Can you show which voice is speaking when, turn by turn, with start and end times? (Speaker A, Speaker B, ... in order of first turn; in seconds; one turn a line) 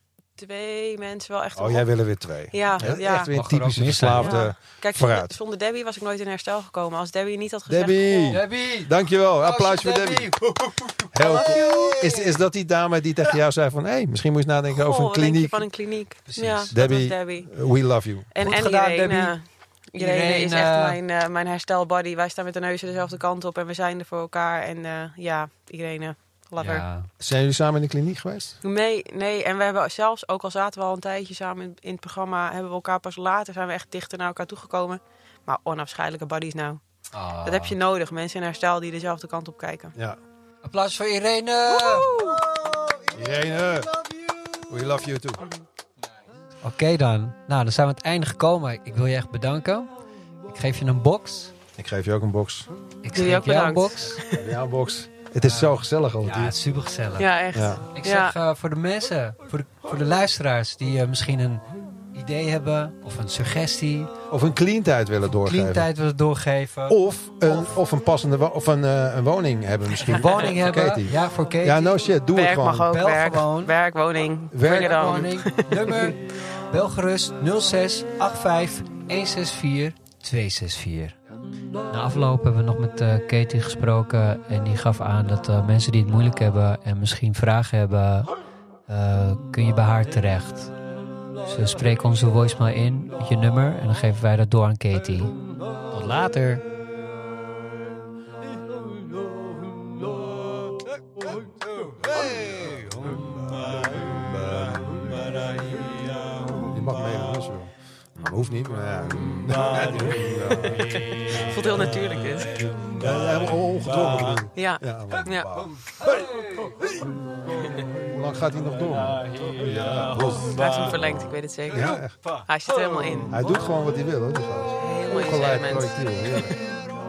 Speaker A: 0.4-1.9
Speaker B: 1.6-5.3
Speaker A: 2.5-3.4
Speaker C: 2.8-4.4
Speaker A: 4.2-8.4
Speaker B: 7.7-10.3
Speaker C: 8.3-12.4
Speaker B: 11.1-15.7
Speaker A: 11.2-11.6
Speaker A: 14.7-17.5
Speaker C: 16.3-16.7
Speaker B: 16.7-18.3
Speaker A: 18.3-26.8
Speaker C: 18.4-19.4
Speaker C: 20.0-21.0
Speaker C: 26.6-27.1
Speaker B: 27.2-28.6
Speaker A: 28.6-36.8
Speaker C: 37.1-37.8
Speaker A: 37.4-39.9
Speaker C: 40.6-42.3
Speaker B: 43.1-45.4
Speaker C: 46.6-49.9
Speaker C: 50.5-51.5
Speaker B: 51.7-52.7
Speaker C: 53.0-54.2
Speaker A: 53.1-54.5
Speaker B: 54.3-56.6
Speaker C: 55.4-57.3
Speaker A: 57.2-58.4
Speaker B: 57.5-57.9
Speaker C: 57.9-64.1
Speaker B: 64.3-65.9
Speaker C: 65.2-67.8
Speaker B: 66.9-72.9
Speaker C: 70.0-72.0
Speaker A: 72.3-76.1
Speaker C: 72.9-73.8
Speaker B: 74.5-75.2
Speaker C: 74.6-81.2
Speaker C: 81.9-88.3
Speaker C: 88.9-90.7
Speaker C: 91.4-95.4
Speaker C: 95.9-96.6
Speaker B: 102.0-105.4
Speaker B: 106.6-111.0
Speaker A: 110.5-112.7
Speaker B: 113.0-116.9
Speaker A: 114.5-115.5
Speaker B: 118.1-120.6
Speaker A: 120.4-121.9
Speaker B: 121.7-122.1
Speaker C: 121.8-122.5
Speaker A: 122.5-123.4
Speaker B: 123.3-126.5
Speaker A: 124.8-126.6